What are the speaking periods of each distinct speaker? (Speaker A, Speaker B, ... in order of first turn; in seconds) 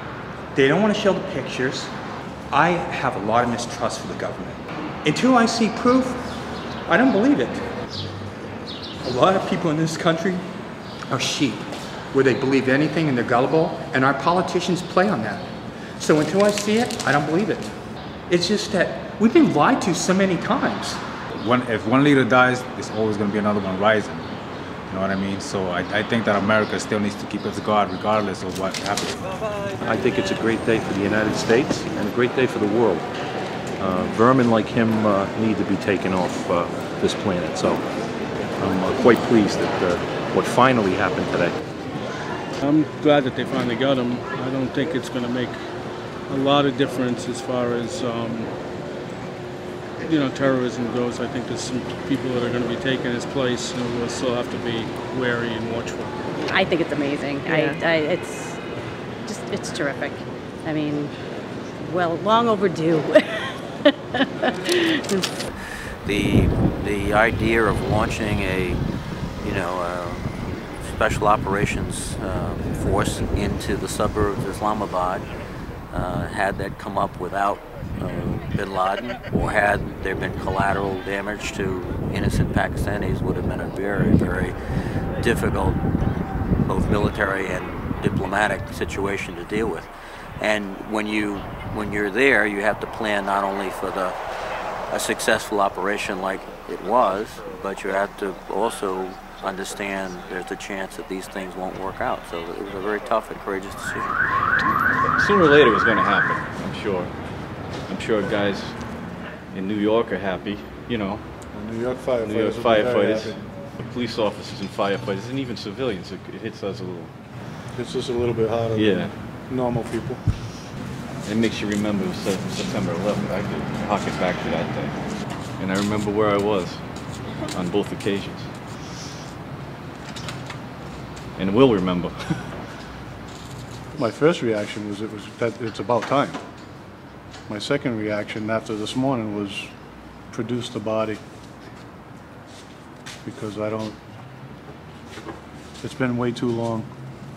Speaker A: 0.5-1.9, 2.5-7.7, 9.0-10.5, 11.1-21.0
Speaker B: 21.4-24.3, 24.9-29.3
Speaker C: 29.8-33.1, 33.8-41.5
Speaker D: 42.6-45.5, 46.3-48.5, 50.0-56.1
Speaker E: 56.5-58.6, 59.3-61.1, 61.8-65.3
Speaker F: 66.0-68.8, 69.4-75.2, 75.9-84.5, 85.2-89.9, 90.4-94.2, 94.9-104.2
Speaker G: 104.7-111.5, 112.2-117.4, 118.8-119.4, 121.2-129.2, 131.3-132.7
Speaker H: 111.5-113.4, 117.7-120.3, 134.0-136.4, 137.5-139.7, 140.3-141.2, 143.2-144.0, 145.8-146.9